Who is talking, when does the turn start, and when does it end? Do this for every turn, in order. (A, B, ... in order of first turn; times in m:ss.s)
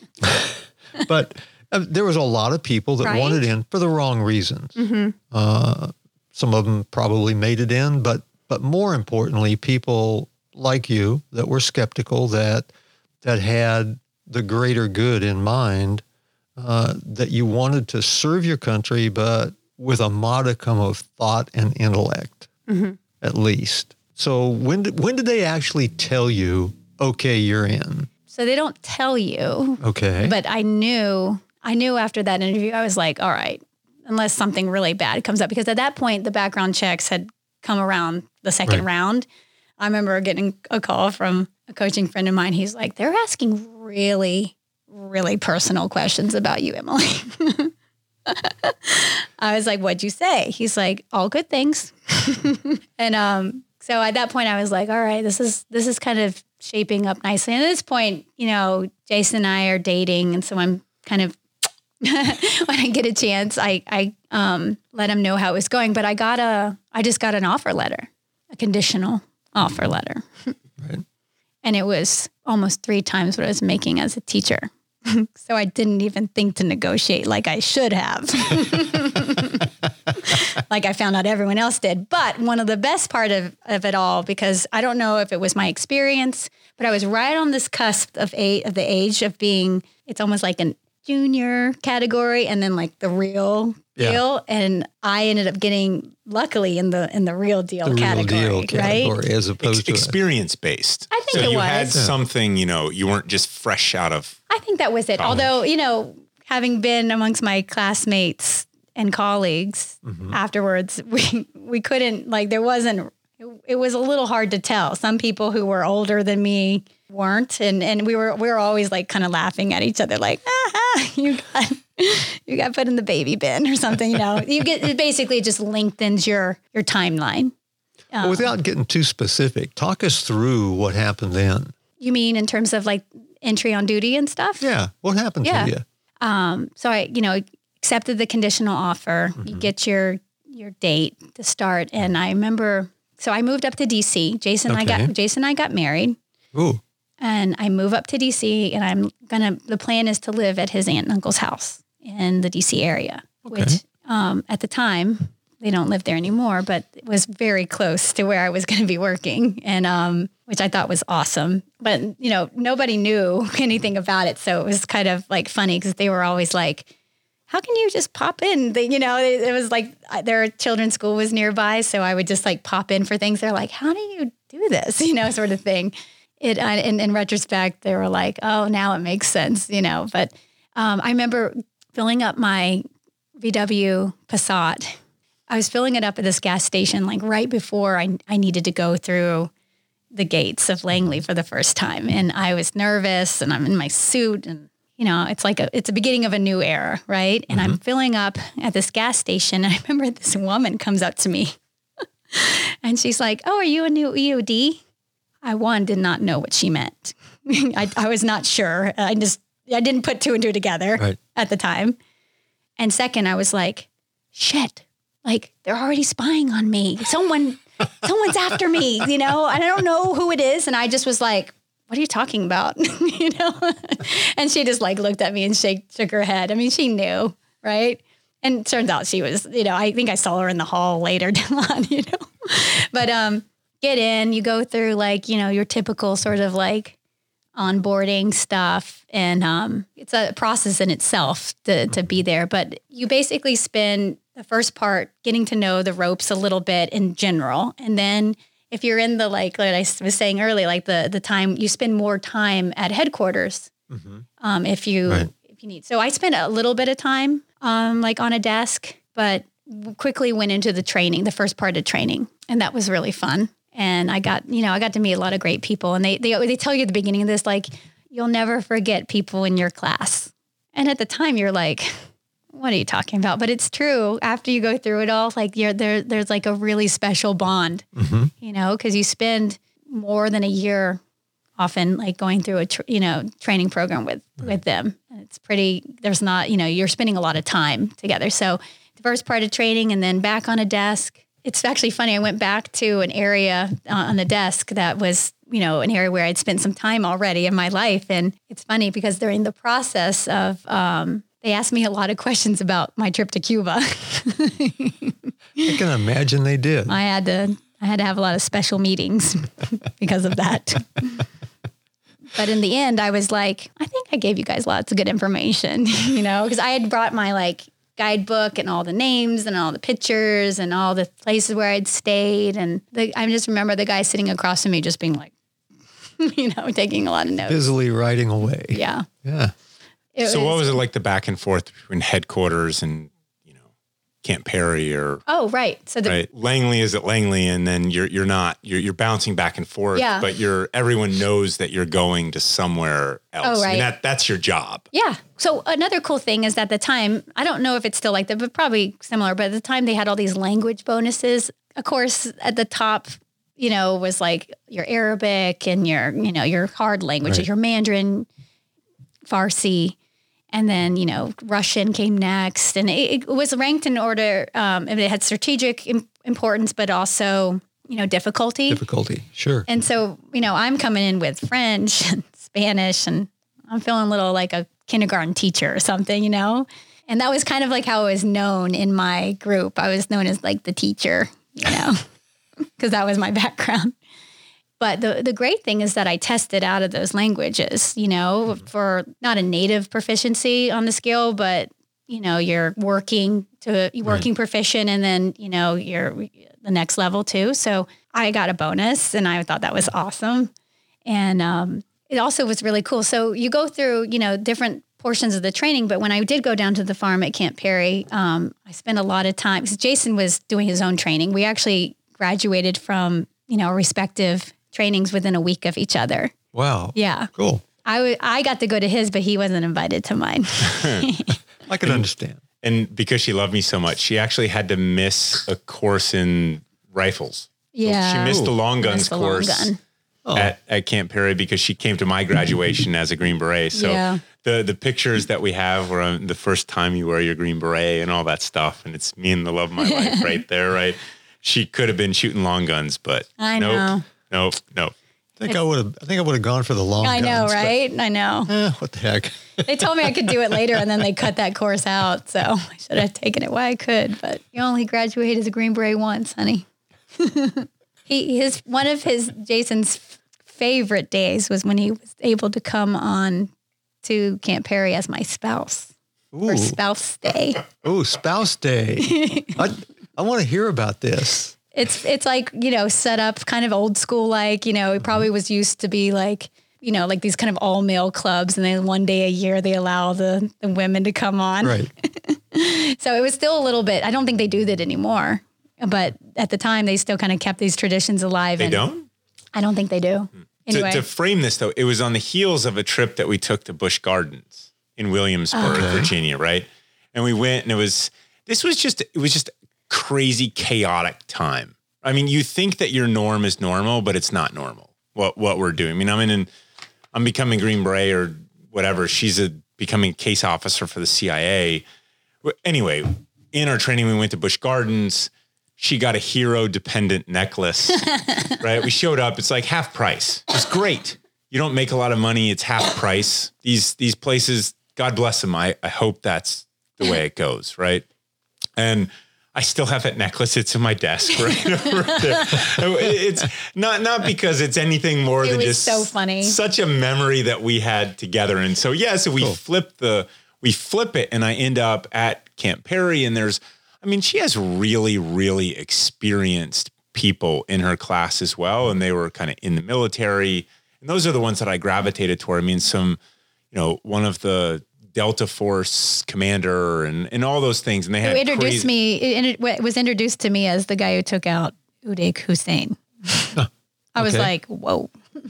0:00.2-0:04.8 A
0:03.0-0:03.4 B
0:04.8-0:05.2 B
0:05.3-0:12.7 A
0:13.2-0:16.0 A
0:16.6-0:22.5 A
0:22.7-0:23.0 B
0:23.2-0:28.1 A
0:28.3-0:39.3 B
0:29.8-0:30.4 A
0:39.8-0:47.7 B
0:48.3-1:01.4 B
1:02.0-1:10.5 B
1:11.6-1:39.1 B
1:37.8-1:40.1 A
1:39.6-1:44.4 C
1:41.1-1:42.0 B
1:41.3-1:42.1 A
1:44.5-2:07.5 B
1:45.2-1:45.5 C
1:50.0-1:50.4 A
2:08.1-2:08.5 B
2:08.2-2:11.7 A
2:12.0-2:14.7 B
2:14.6-2:15.8 A
2:15.4-2:26.2 B
2:19.4-2:19.7 A
2:24.7-2:25.1 A
2:26.5-2:26.8 A
2:27.2-2:46.9 B
2:33.5-2:33.8 A
2:47.5-3:02.8 B
3:03.4-3:05.0 B
3:05.5-3:09.5 B
3:10.1-3:21.6 B
3:17.5-3:17.8 A
3:22.3-3:24.8 B
3:25.4-3:32.0 B
3:32.8-3:57.0 B
3:57.6-4:13.7 B
4:13.9-4:14.2 A
4:14.4-4:37.9 B
4:38.0-4:38.3 A
4:38.4-4:41.0 B
4:41.6-5:05.8 B
5:05.6-5:07.0 A
5:06.9-5:11.3 B
5:12.3-5:25.3 B
5:26.2-5:27.7 B
5:27.5-5:29.5 A
5:28.7-5:29.1 B
5:30.2-5:30.8 B
5:30.2-5:33.1 C
5:34.2-5:35.2 C
5:35.3-5:36.2 B
5:36.1-5:44.9 C
5:40.0-5:40.3 B
5:43.4-5:43.9 B
5:44.9-5:58.3 B
5:59.3-6:00.0 B
6:00.5-6:08.8 B
6:08.7-6:09.7 A
6:09.7-6:22.0 B
6:22.8-6:24.0 B
6:24.8-6:40.5 B
6:41.1-6:56.3 B
6:56.5-6:57.6 A
6:57.0-6:57.3 B
6:57.8-7:01.4 B
7:00.7-7:01.0 C
7:01.7-7:02.4 A
7:02.6-7:09.7 C
7:07.7-7:09.8 B
7:08.2-7:08.5 A
7:10.2-7:10.5 A
7:10.4-7:24.9 C
7:13.7-7:14.2 B
7:19.9-7:20.4 B
7:23.4-7:24.1 B
7:25.4-7:27.8 A
7:27.0-7:28.5 B
7:28.5-7:30.8 A
7:29.6-7:43.5 B
7:44.0-7:45.9 B
7:46.3-7:46.8 A
7:46.5-7:47.7 B
7:47.8-7:51.6 A
7:49.0-7:49.6 B
7:51.7-8:08.9 B
7:55.0-7:55.3 A
8:01.6-8:01.9 A
8:08.6-8:09.1 C
8:09.6-8:11.0 B
8:10.7-8:26.5 C
8:15.5-8:16.0 B
8:15.7-8:16.1 A
8:27.1-8:31.8 C
8:32.4-8:48.0 C
8:38.0-8:38.6 B
8:48.8-9:13.2 C
8:51.4-8:52.7 B
8:55.4-8:56.6 B
9:13.7-9:18.9 C
9:18.2-9:23.6 B
9:24.2-9:25.1 B
9:24.2-9:24.5 A